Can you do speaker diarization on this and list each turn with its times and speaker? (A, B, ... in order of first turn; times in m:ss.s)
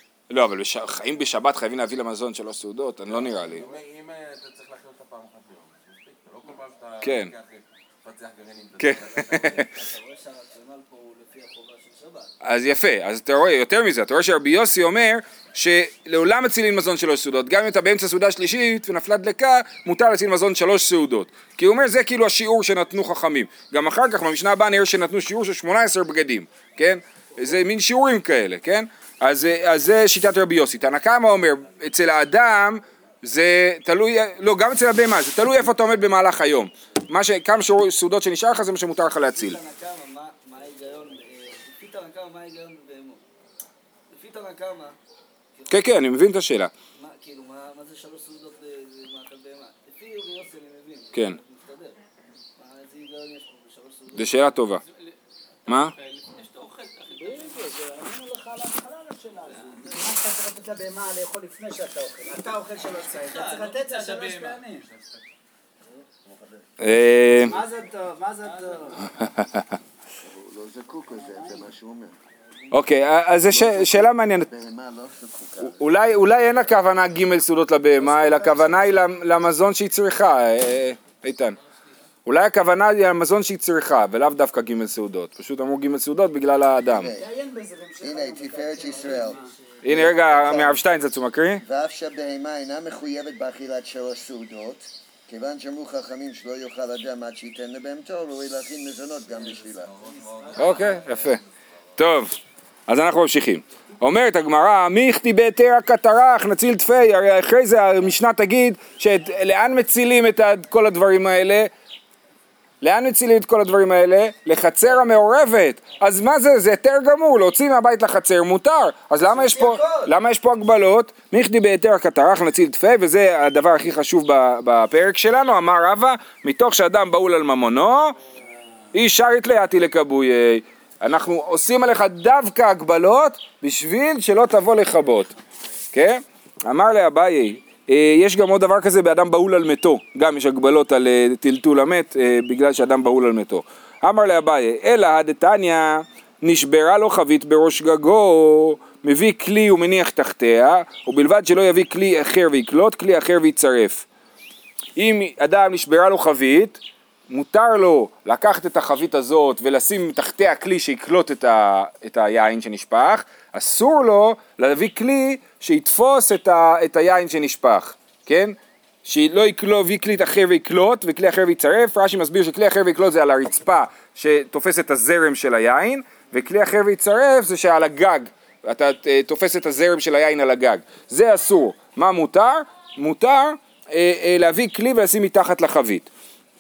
0:00.3-0:03.7 A
0:03.1-0:09.8 B
0:07.0-0:07.3 A
0:08.8-0:09.7 A
0:09.3-0:12.3 C
0:12.4-0:39.6 A
0:39.3-0:43.2 C
0:44.1-0:45.0 C
0:45.7-0:46.7 A
0:46.9-0:52.0 C
0:52.6-0:54.5 C
0:54.1-0:54.8 A
0:54.9-0:55.1 B
0:55.7-0:57.7 B
0:55.7-0:55.9 A
0:57.2-1:04.8 C
1:03.0-1:05.2 B
1:06.8-1:07.6 A
1:07.4-1:09.1 C
1:08.5-1:09.0 B
1:10.2-1:12.2 D
1:12.7-1:14.5 A
1:13.4-1:16.0 D
1:15.6-1:21.6 A
1:18.3-1:18.8 D
1:22.3-1:27.1 A
1:26.9-1:27.3 D
1:27.1-1:29.5 C
1:28.0-1:30.8 D
1:29.8-1:31.6 A
1:31.6-1:40.0 D
1:40.0-1:41.0 B
1:40.3-1:41.0 C
1:40.6-1:41.4 A
1:42.0-1:42.4 A
1:42.9-1:51.7 A
1:52.8-2:08.2 A
1:59.3-2:00.1 C
2:08.9-2:15.3 A
2:15.9-2:34.1 A
2:35.0-3:06.1 A